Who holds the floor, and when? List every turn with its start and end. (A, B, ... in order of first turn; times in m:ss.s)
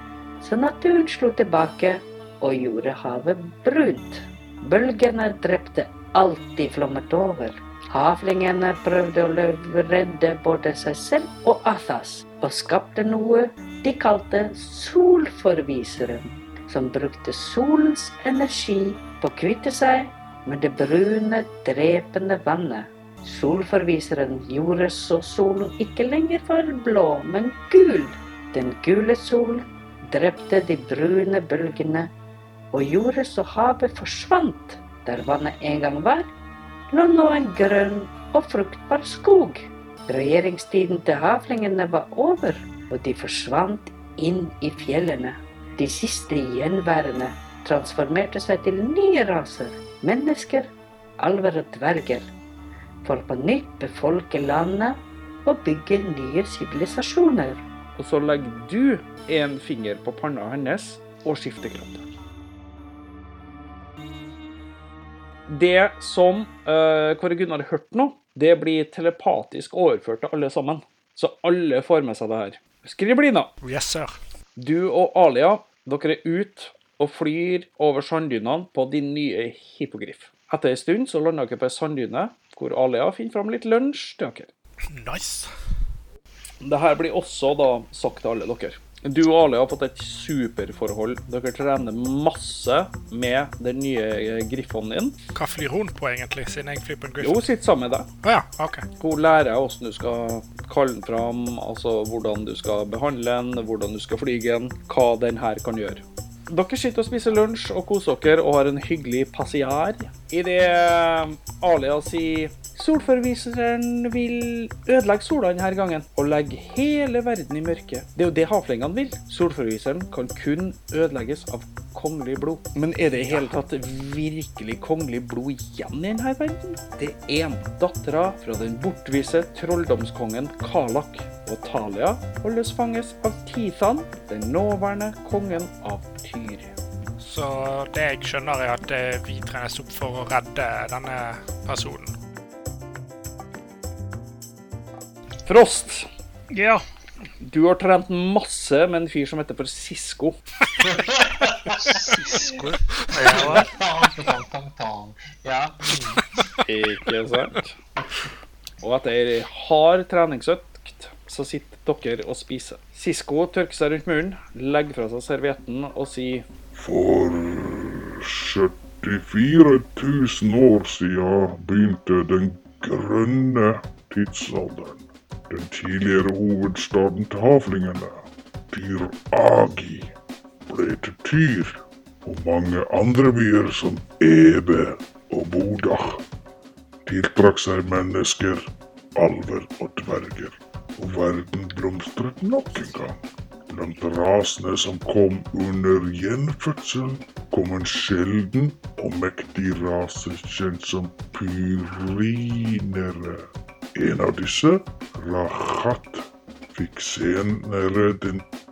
0:00.4-0:32.1 A
0:32.7-0:36.3 A
0:36.9-0:52.3 A
0:53.0-0:57.6 A
0:58.0-1:02.0 B
1:05.5-1:13.5 B
1:13.6-1:14.1 C
1:14.6-1:24.5 B
1:24.9-1:25.5 C
1:26.6-1:35.2 B
1:35.3-1:37.4 C
1:37.2-1:38.1 B
1:38.2-1:38.8 C
1:39.0-2:16.7 B
2:03.1-2:03.5 C
2:17.2-2:22.1 C
2:25.4-2:26.1 B
2:26.5-2:26.8 D
2:27.4-2:30.4 B
2:30.8-2:32.0 E
2:31.9-2:33.7 D
2:33.2-2:36.0 E
2:36.6-2:37.8 B
2:38.8-2:46.4 B
2:46.7-3:00.1 F
3:00.6-3:06.2 F
3:07.0-3:28.4 F